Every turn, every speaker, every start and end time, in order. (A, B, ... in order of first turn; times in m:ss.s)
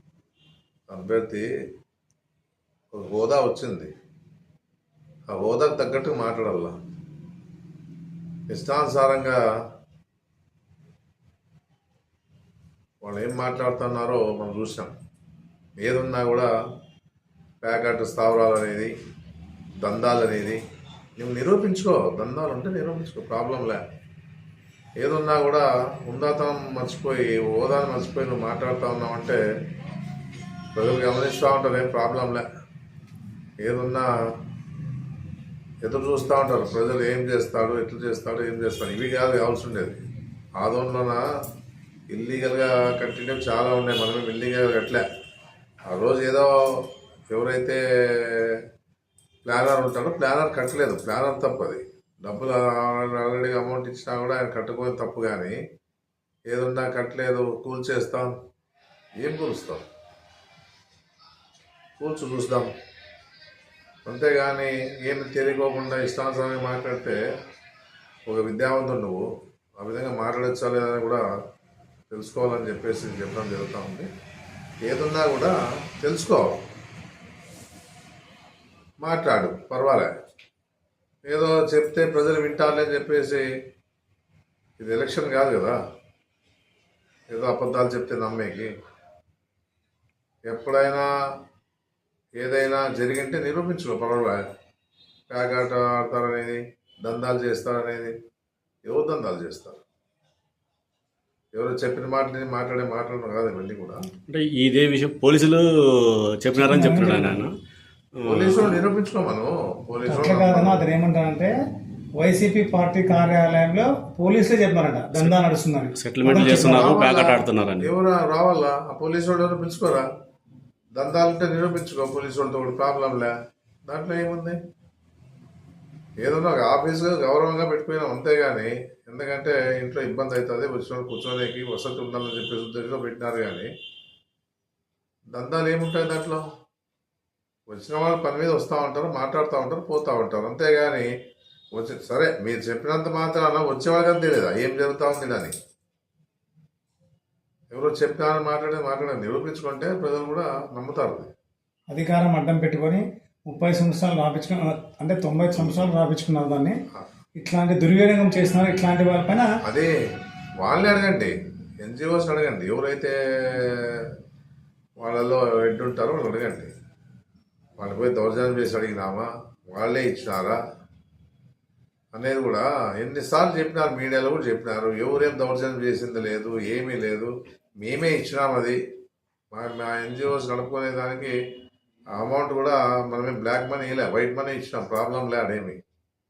0:00.9-0:01.4 A
0:02.9-0:03.9 A
0:05.3-0:06.8 A
0:08.5-0:09.4 A
0:13.0-0:14.9 A
0:15.8-0:16.5 A
0:17.6-0:18.9 A
0:19.8-0:20.6 A
0:21.2-0:23.8 A
0:25.0-0:29.4 A
0:30.7-0:32.4 A
0:33.6-0:34.1 A
0:35.8-0:40.0 A
0:40.6-0:41.2 A
0:42.1-0:45.0 A
0:45.9-0:46.6 A
0:47.3-0:48.6 A
0:49.5-0:55.6 A
0:56.5-0:58.3 A
0:59.2-0:59.8 A
1:02.0-1:02.7 A
1:04.1-1:07.2 A
1:08.3-1:09.3 A
1:09.8-1:11.2 A
1:12.1-1:14.1 A
1:14.8-1:16.6 A
1:19.0-1:20.1 A
1:21.3-1:23.5 A
1:24.8-1:25.8 A
1:27.3-1:28.7 A
1:30.5-1:31.1 A
1:32.4-1:34.4 A
1:35.3-1:38.2 A
1:38.9-1:39.8 A
1:41.5-1:44.0 A
1:44.3-1:47.5 B
1:46.5-1:47.4 C
1:48.2-1:48.8 B
1:48.2-1:50.9 A
1:50.1-1:51.5 C
1:52.2-1:56.9 C
1:56.0-1:57.9 B
1:56.6-2:00.1 A
2:01.0-2:03.3 A
2:03.9-2:04.6 A
2:06.2-2:13.7 A
2:15.3-2:16.4 A
2:17.7-2:21.1 A
2:21.8-2:25.5 A
2:27.7-2:31.3 A
2:31.9-2:36.8 C
2:35.5-2:35.9 A
2:37.4-2:39.5 C
2:39.6-2:39.9 A
2:40.6-2:44.1 A
2:45.0-2:46.7 A
2:47.8-2:50.6 A
2:52.1-2:58.8 A
2:59.5-3:01.4 A
3:02.2-3:05.8 A